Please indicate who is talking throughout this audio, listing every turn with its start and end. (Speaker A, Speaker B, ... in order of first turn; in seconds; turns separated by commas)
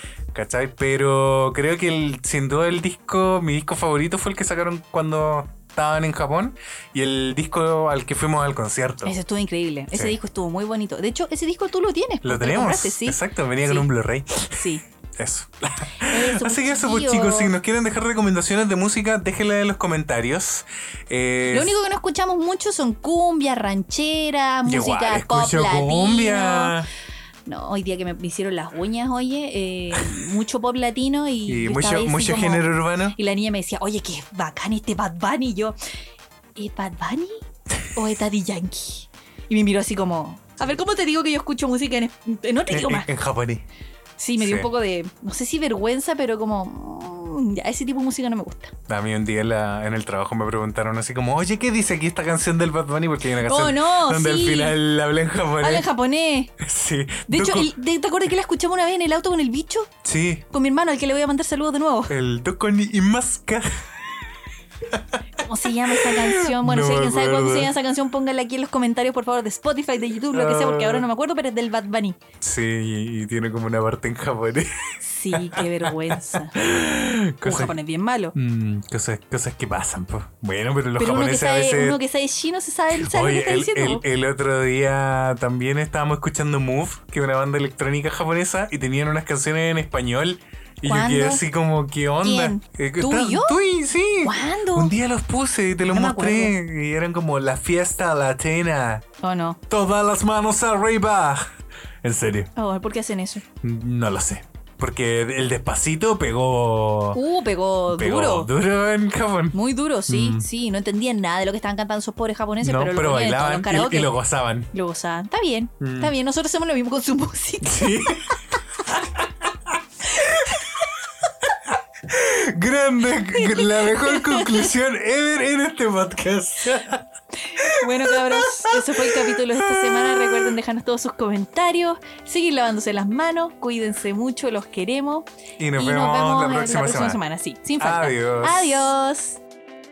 Speaker A: 0.3-9.1, Speaker B: 9.0-13.9, Speaker A: 12.2-21.7, Speaker B: 14.6-14.8, Speaker B: 16.1-17.5, Speaker B: 21.5-26.8, Speaker A: 24.6-26.9, Speaker B: 27.4-35.8, Speaker A: 31.5-33.1, Speaker B: 36.5-37.4, Speaker B: 37.9-43.1, Speaker A: 42.7-43.6, Speaker B: 44.2-48.7, Speaker A: 44.4-44.7, Speaker A: 48.9-55.8, Speaker B: 53.4-54.8, Speaker B: 55.6-56.5, Speaker A: 56.6-57.7, Speaker B: 57.3-59.9, Speaker A: 60.0-60.4, Speaker B: 60.5-62.1, Speaker A: 62.1-63.9, Speaker A: 64.9-67.7, Speaker B: 65.4-72.2, Speaker A: 70.3-71.0, Speaker A: 72.4-77.8, Speaker B: 75.0-76.7, Speaker B: 77.4-78.3, Speaker A: 78.3-82.0, Speaker B: 81.0-84.0, Speaker A: 83.0-99.0, Speaker B: 90.8-91.4, Speaker B: 92.2-93.6, Speaker B: 94.2-94.9, Speaker B: 95.8-96.5, Speaker B: 99.2-99.6, Speaker A: 99.7-101.4, Speaker A: 102.0-102.5, Speaker B: 102.5-103.4, Speaker A: 103.6-107.2, Speaker B: 107.1-108.5, Speaker A: 107.9-110.4, Speaker B: 109.5-114.2, Speaker A: 112.6-114.7, Speaker B: 114.7-118.4, Speaker A: 115.8-116.1, Speaker A: 117.6-120.6, Speaker B: 120.1-120.8, Speaker A: 121.4-127.0, Speaker B: 123.3-124.7, Speaker B: 127.4-139.4, Speaker A: 127.6-130.6, Speaker A: 135.6-137.2, Speaker A: 137.8-138.8